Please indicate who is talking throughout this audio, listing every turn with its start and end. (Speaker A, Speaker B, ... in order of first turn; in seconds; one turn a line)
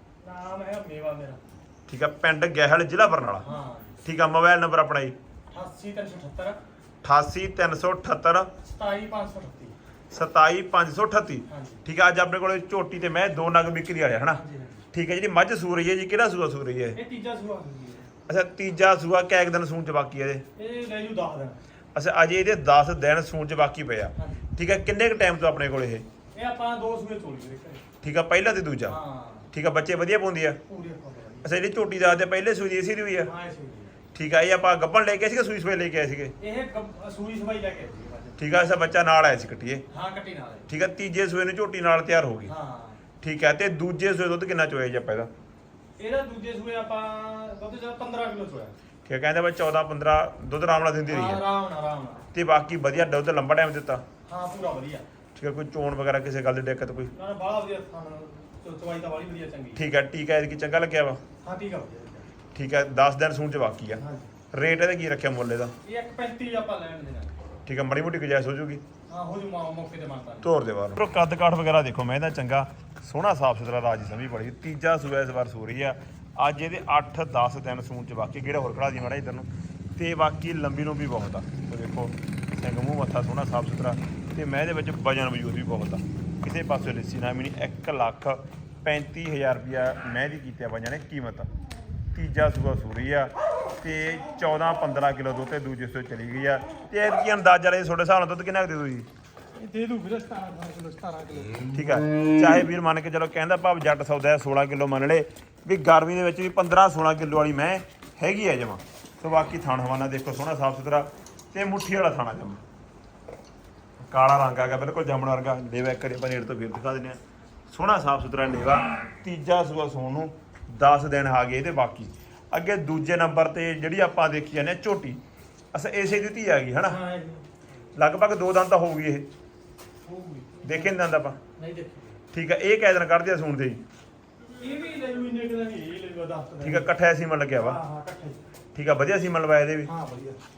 Speaker A: 0.2-1.4
Speaker B: 1.9-3.5
Speaker A: 3.4-4.0
Speaker B: 4.0-5.1
Speaker A: 5.5-6.6
Speaker B: 7.0-8.5
Speaker A: 8.6-9.8
Speaker B: 10.1-14.4
Speaker A: 11.5-11.8
Speaker A: 14.3-14.9
Speaker B: 14.9-17.0
Speaker A: 16.9-18.1
Speaker B: 18.3-20.4
Speaker A: 20.6-21.6
Speaker B: 21.9-26.1
Speaker A: 24.2-24.4
Speaker A: 26.3-27.8
Speaker B: 28.0-29.0
Speaker A: 28.9-29.5
Speaker B: 29.5-30.6
Speaker A: 30.7-31.5
Speaker B: 31.4-33.3
Speaker A: 33.2-34.0
Speaker B: 34.1-36.3
Speaker A: 36.4-38.4
Speaker B: 38.4-39.8
Speaker A: 39.9-40.7
Speaker B: 40.7-42.5
Speaker A: 42.5-43.0
Speaker B: 43.2-45.3
Speaker A: 46.0-48.7
Speaker B: 49.0-51.4
Speaker A: 51.1-52.3
Speaker B: 52.3-54.0
Speaker A: 54.2-55.0
Speaker B: 55.4-57.1
Speaker A: 57.1-59.8
Speaker B: 59.8-61.2
Speaker A: 61.4-62.3
Speaker B: 62.5-65.7
Speaker A: 64.0-64.3
Speaker A: 65.8-67.4
Speaker B: 67.7-68.8
Speaker A: 69.1-70.5
Speaker B: 70.4-91.5
Speaker B: 92.1-99.1
Speaker A: 99.5-101.7
Speaker B: 101.7-112.6
Speaker B: 114.1-125.2
Speaker B: 125.7-127.0
Speaker A: 126.8-127.5
Speaker B: 127.9-129.3
Speaker A: 130.0-132.2
Speaker B: 130.6-131.4
Speaker B: 132.3-133.8
Speaker A: 134.5-136.9
Speaker B: 136.6-137.8
Speaker A: 137.6-138.4
Speaker B: 138.7-139.9
Speaker A: 139.8-140.4